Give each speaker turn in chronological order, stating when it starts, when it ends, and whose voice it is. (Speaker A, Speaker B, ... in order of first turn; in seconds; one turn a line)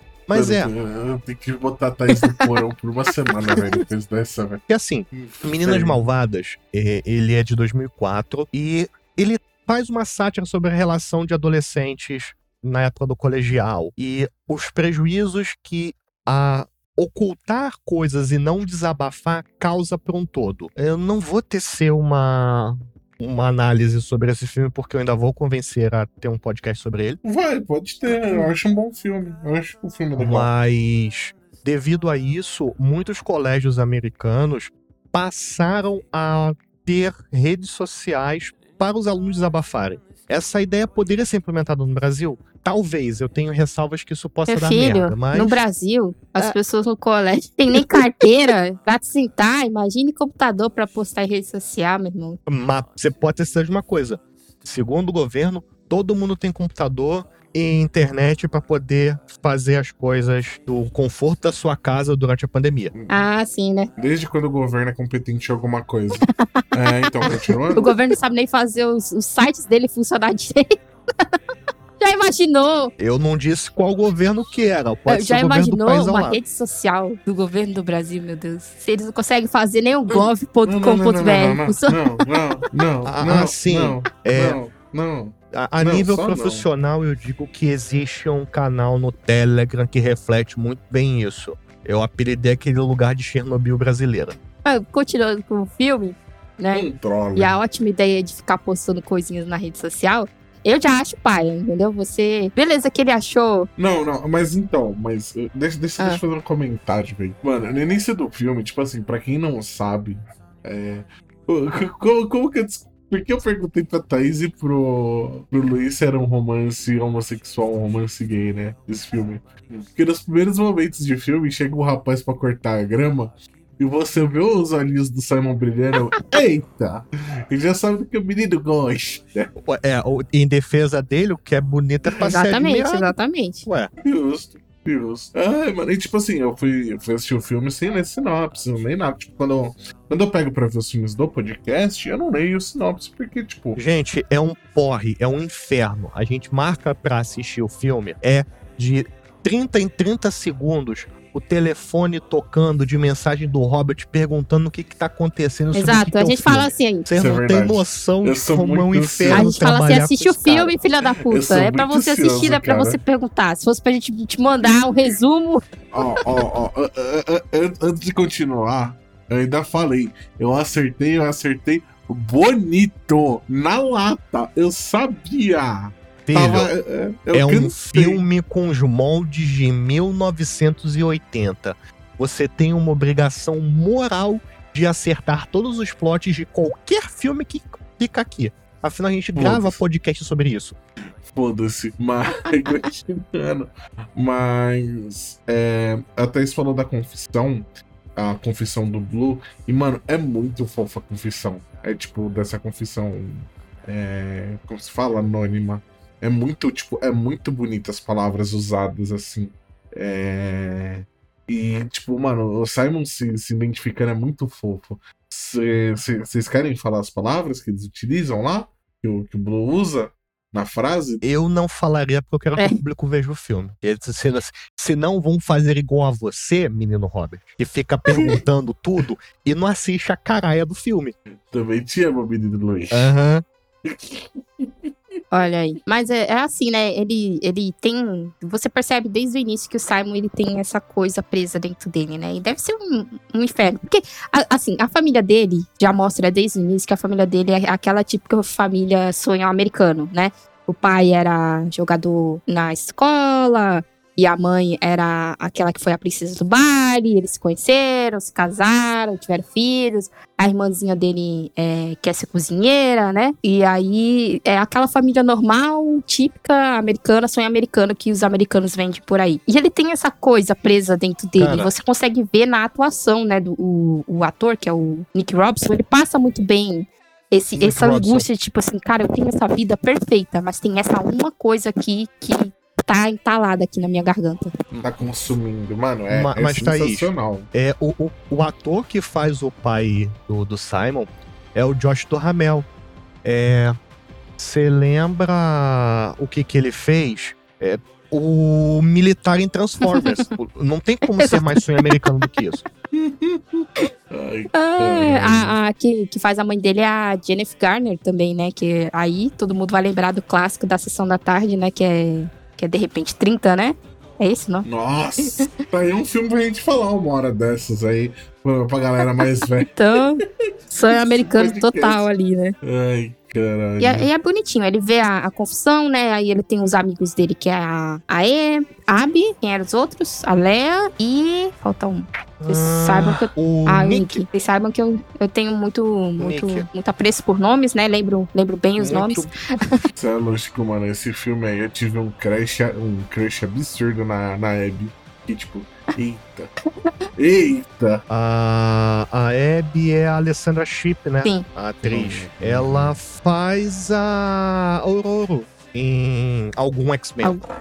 Speaker A: 0.3-0.7
Speaker B: 0.3-6.0
Speaker A: 4.7-27.2
Speaker B: 27.2-30.5
Speaker A: 28.1-28.4
Speaker A: 30.2-45.6
Speaker C: 44.5-52.4
Speaker A: 47.8-48.0
Speaker A: 52.5-62.9
Speaker B: 62.9-63.2
Speaker C: 63.1-63.9
Speaker B: 64.0-67.9
Speaker C: 67.2-71.3
Speaker C: 72.0-72.9
Speaker A: 73.0-76.4
Speaker C: 75.1-82.0
Speaker B: 80.1-86.7
Speaker A: 83.1-84.6
Speaker A: 85.5-94.4
Speaker C: 94.7-103.7
Speaker B: 96.7-97.6
Speaker B: 103.8-129.5
Speaker A: 129.6-133.9
Speaker C: 132.2-133.7
Speaker B: 134.0-143.8
Speaker A: 143.8-160.8
Speaker C: 155.7-157.1
Speaker B: 157.1-159.6
Speaker C: 159.3-165.6
Speaker B: 161.3-163.0
Speaker B: 164.6-165.2
Speaker B: 165.9-178.2
Speaker A: 176.2-176.7
Speaker A: 177.3-190.8
Speaker B: 189.4-189.8
Speaker B: 191.3-221.2
Speaker A: 221.2-231.2
Speaker B: 231.5-233.1
Speaker A: 232.9-233.4
Speaker B: 233.8-234.9
Speaker C: 235.3-284.5
Speaker A: 271.4-271.7
Speaker A: 277.6-278.3
Speaker B: 284.7-287.5
Speaker A: 286.1-292.7
Speaker A: 293.2-293.8
Speaker A: 294.4-302.6
Speaker C: 299.9-300.3
Speaker C: 301.1-302.1
Speaker B: 302.9-305.6
Speaker C: 304.5-314.7
Speaker B: 314.6-319.7
Speaker C: 319.7-322.6
Speaker B: 320.9-322.1
Speaker B: 322.6-324.1
Speaker C: 323.8-339.8
Speaker A: 332.4-334.2
Speaker A: 336.2-336.7
Speaker A: 338.8-339.3
Speaker B: 338.8-339.2
Speaker B: 339.9-346.5
Speaker B: 347.2-348.0
Speaker A: 348.1-357.4
Speaker B: 351.9-353.0